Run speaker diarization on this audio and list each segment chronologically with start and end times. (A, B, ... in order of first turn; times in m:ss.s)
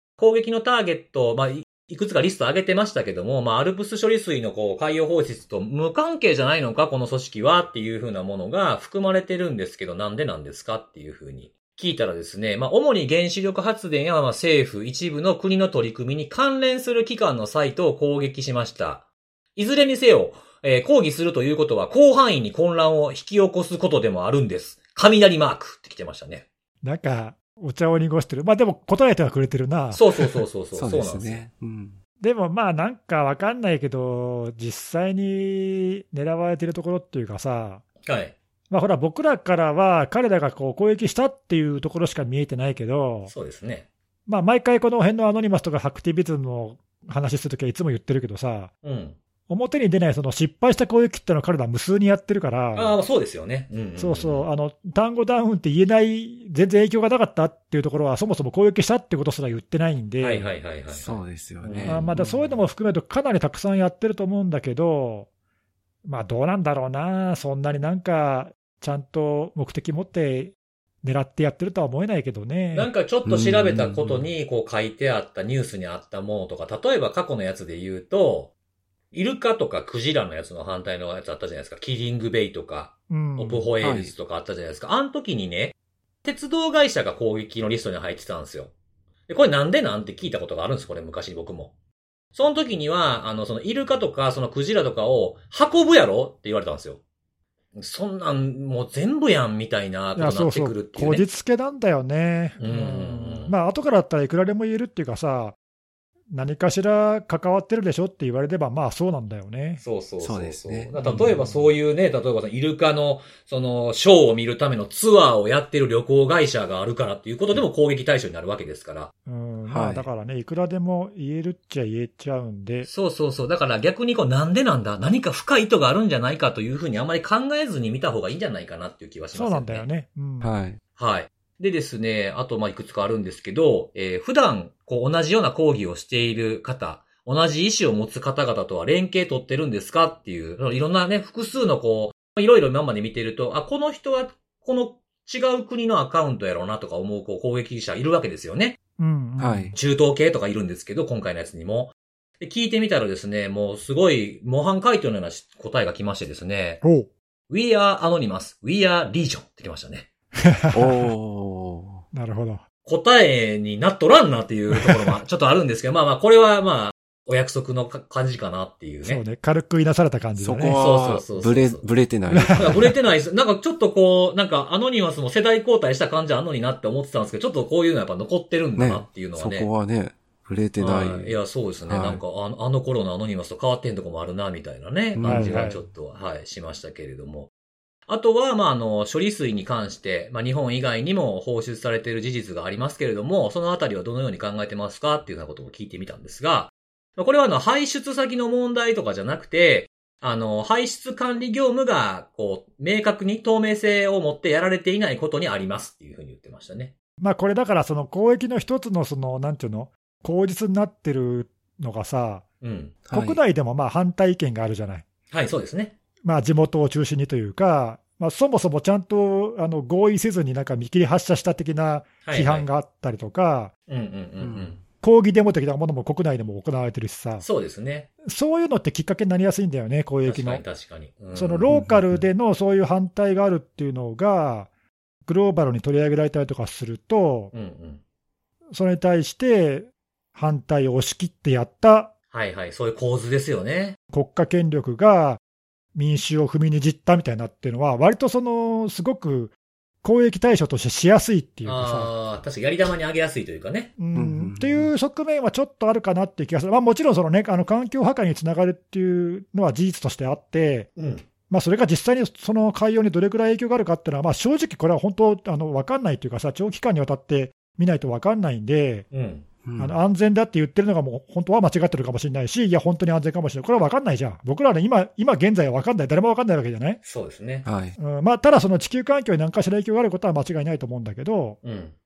0:00.2-0:19.0 A
0:19.6-0:26.5 A
0:26.8-0:30.4 B
0:29.9-0:31.4 A
0:30.7-0:32.0 C
0:32.2-0:37.8 B
0:38.0-0:38.4 A
0:38.7-0:43.3 B
0:43.3-0:43.9 A
0:44.3-0:48.7 B
0:48.8-0:49.2 A
0:49.5-0:53.0 B
0:52.8-0:54.5 A
0:54.0-1:00.5 B
1:00.2-1:02.1 A
1:00.9-1:02.5 C
1:01.9-1:05.3 B
1:06.0-1:12.9 B
1:12.7-1:18.5 A
1:13.2-1:14.3 C
1:19.1-1:28.7 A
1:23.1-1:23.7 B
1:23.8-1:24.1 C
1:29.3-1:31.7 A
1:32.3-1:37.0 A
1:37.8-1:41.2 A
1:40.2-1:45.6 B
1:42.6-1:43.5 A
1:46.3-1:49.8 B
1:49.8-1:59.1 A
1:50.2-1:51.4 C
1:51.0-1:51.7 B
1:59.3-2:02.9 B
1:59.7-2:00.1 C
2:02.8-2:09.9 A
2:09.3-2:10.6 B
2:10.4-2:10.8 C
2:11.0-2:28.8 A
2:29.0-2:29.7 B
2:29.4-2:29.7 C
2:29.7-2:36.8 A
2:36.8-2:37.1 B
2:37.5-2:40.1 A
2:40.4-2:41.1 B
2:40.7-2:42.0 C
2:42.1-2:42.6 B
2:42.8-2:49.2 A
2:44.8-2:45.1 B
2:49.0-2:50.8 B
2:50.4-2:52.9 C
2:50.8-2:51.8 A
2:52.3-2:52.9 B
2:52.6-2:59.7 A
2:58.8-3:01.4 C
3:00.8-3:07.5 A
3:01.9-3:02.2 C
3:05.2-3:05.8 C
3:05.2-3:05.8 B
3:08.1-3:26.9 A
3:27.2-3:32.4 B
3:32.6-3:33.0 A
3:33.0-3:33.4 C
3:33.1-3:35.1 B
3:35.3-3:36.0 A
3:36.2-3:43.7 B
3:42.2-3:42.7 A
3:43.9-3:44.8 A
3:44.4-3:44.8 C
3:45.0-3:47.5 B
3:47.4-3:48.1 A
3:48.2-3:50.6 B
3:50.2-3:51.7 A
3:51.3-3:54.7 B
3:51.7-3:52.2 C
3:55.3-3:57.5 B
3:57.5-3:58.0 A
3:58.7-4:02.1 B
4:02.3-4:04.0 A
4:04.1-4:05.4 B
4:06.0-4:12.1 B
4:11.6-4:14.0 A
4:14.0-4:20.9 B
4:14.1-4:14.9 C
4:21.0-4:21.2 A
4:21.5-4:29.1 B
4:29.1-4:29.5 A
4:29.6-4:30.0 C
4:29.8-4:37.0 B
4:37.0-4:37.6 A
4:37.6-4:38.0 C
4:38.0-4:41.6 B
4:41.6-4:42.0 A